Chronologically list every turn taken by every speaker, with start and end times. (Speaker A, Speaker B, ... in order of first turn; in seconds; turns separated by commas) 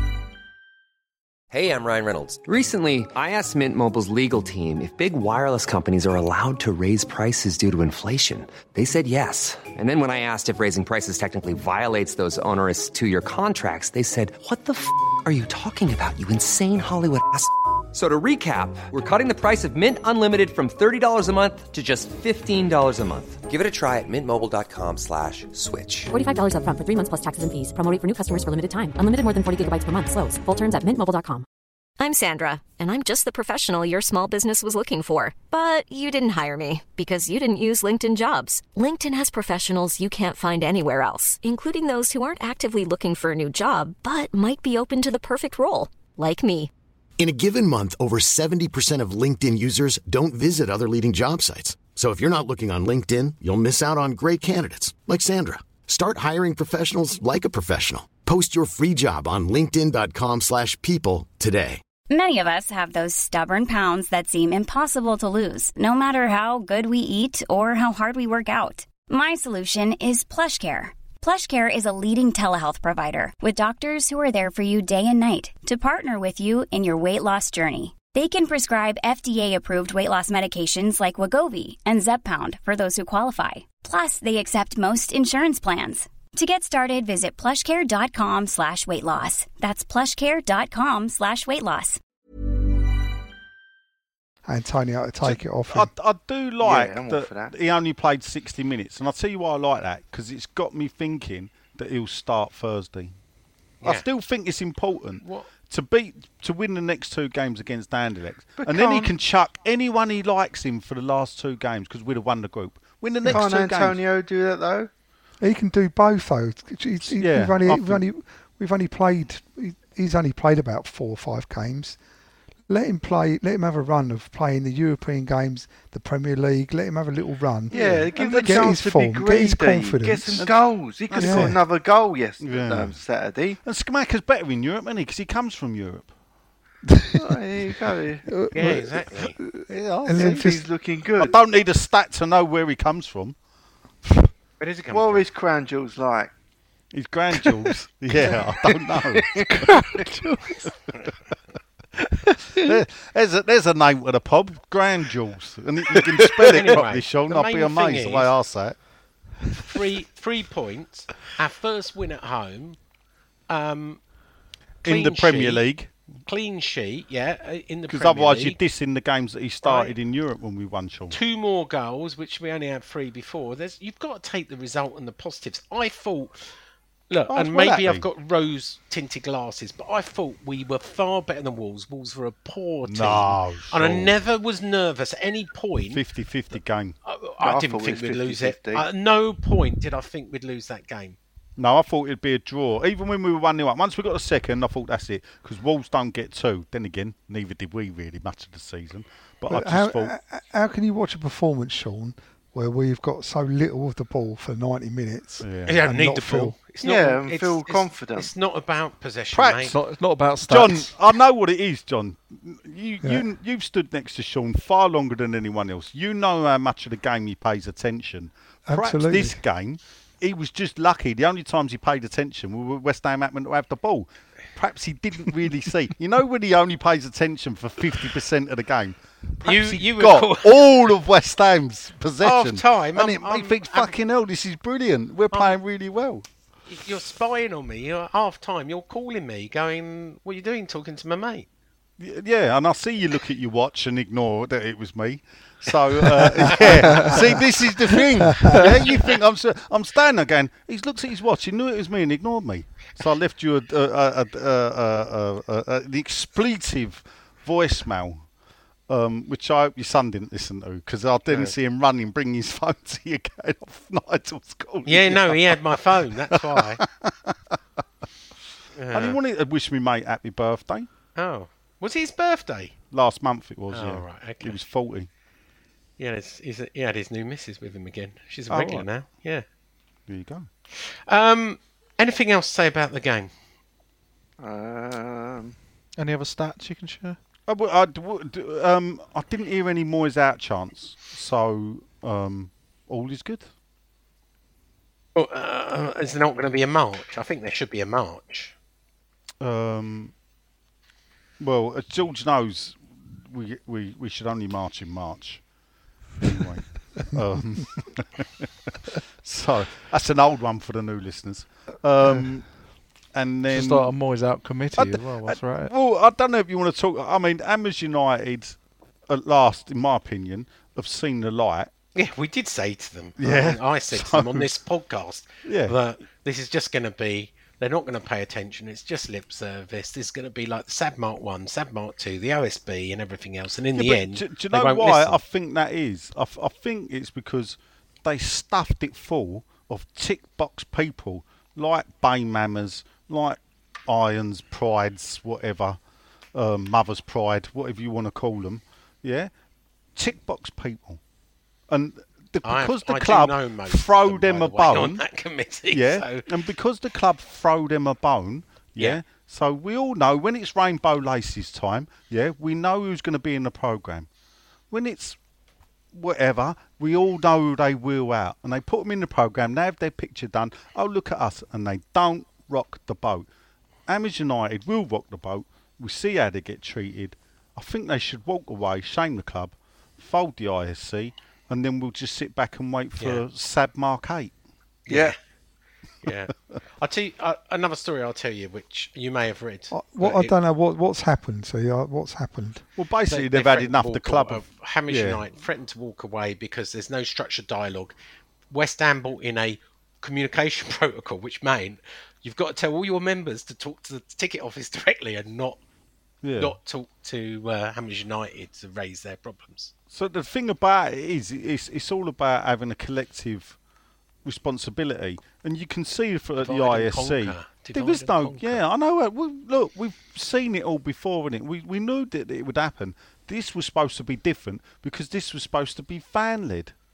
Speaker A: 1.5-26.1, Speaker B: 26.1-31.4, Speaker C: 32.0-46.7, Speaker D: 47.2-61.8, Speaker E: 62.1-92.0, Speaker F: 94.5-95.9, Speaker G: 95.2-103.1, Speaker H: 96.6-97.5, Speaker G: 103.8-114.0, Speaker I: 105.2-105.5, Speaker H: 108.6-109.1, Speaker H: 113.2-114.9, Speaker F: 115.4-122.0, Speaker G: 117.1-118.0, Speaker F: 122.7-130.5, Speaker G: 127.7-128.7, Speaker H: 127.7-133.6, Speaker G: 130.3-131.6, Speaker F: 131.1-131.6, Speaker G: 132.4-133.0, Speaker G: 133.6-136.1, Speaker F: 137.0-137.3, Speaker H: 137.2-138.3, Speaker F: 138.3-140.6, Speaker I: 138.5-139.4, Speaker G: 139.7-140.5, Speaker H: 140.1-141.4, Speaker G: 141.2-143.4, Speaker I: 144.6-145.2, Speaker H: 144.9-146.3, Speaker G: 146.9-149.9, Speaker H: 148.9-149.5, Speaker J: 149.5-150.7, Speaker J: 152.3-152.6, Speaker G: 152.6-158.8, Speaker I: 156.5-158.3, Speaker I: 159.6-162.8, Speaker I: 163.5-164.0, Speaker G: 164.8-165.9, Speaker I: 164.8-165.6, Speaker I: 166.2-168.6, Speaker G: 167.9-171.2, Speaker I: 169.6-169.9, Speaker I: 171.1-176.5, Speaker I: 177.1-186.0, Speaker G: 177.3-178.1, Speaker G: 182.8-184.2, Speaker G: 185.9-186.9, Speaker I: 187.1-191.2, Speaker H: 187.4-188.8, Speaker G: 191.6-200.1, Speaker F: 199.5-206.6, Speaker G: 205.4-205.8, Speaker I: 205.7-209.7, Speaker H: 206.8-208.3, Speaker G: 209.3-209.8, Speaker J: 209.7-210.9, Speaker G: 210.4-236.2, Speaker F: 218.7-219.4, Speaker I: 229.4-230.9, Speaker I: 232.2-234.0, Speaker I: 236.7-241.4, Speaker G: 242.0-258.3, Speaker I: 246.6-247.0, Speaker G: 258.9-267.6, Speaker I: 261.3-261.5, Speaker I: 264.8-266.8, Speaker I: 268.7-269.2, Speaker G: 268.9-270.9, Speaker I: 271.1-272.8, Speaker G: 272.9-275.1, Speaker I: 273.7-274.6, Speaker I: 276.0-279.4, Speaker G: 278.5-278.9, Speaker G: 280.1-280.5, Speaker I: 280.7-283.3, Speaker H: 284.4-285.6, Speaker J: 286.0-287.2, Speaker G: 287.5-293.5, Speaker I: 295.1-298.5, Speaker G: 299.4-300.1, Speaker G: 301.4-305.4, Speaker G: 306.2-308.5, Speaker G: 309.2-313.9, Speaker J: 313.5-315.7, Speaker G: 314.7-318.6, Speaker G: 319.1-321.7, Speaker I: 321.9-335.2, Speaker G: 323.2-324.5, Speaker G: 325.4-325.8, Speaker G: 333.7-345.8, Speaker G: 346.3-349.3, Speaker G: 349.9-351.0, Speaker G: 351.7-355.0, Speaker I: 352.4-356.3, Speaker G: 355.7-364.1, Speaker G: 364.7-365.2, Speaker G: 365.9-373.3, Speaker G: 373.9-384.3, Speaker I: 384.9-385.1, Speaker H: 384.9-385.1, Speaker I: 386.0-390.3, Speaker F: 389.7-392.7, Speaker G: 392.8-395.2, Speaker I: 393.1-397.9, Speaker I: 398.5-405.6, Speaker G: 406.2-406.6, Speaker I: 406.4-409.7, Speaker G: 409.9-413.6, Speaker G: 414.2-426.7, Speaker I: 416.4-418.6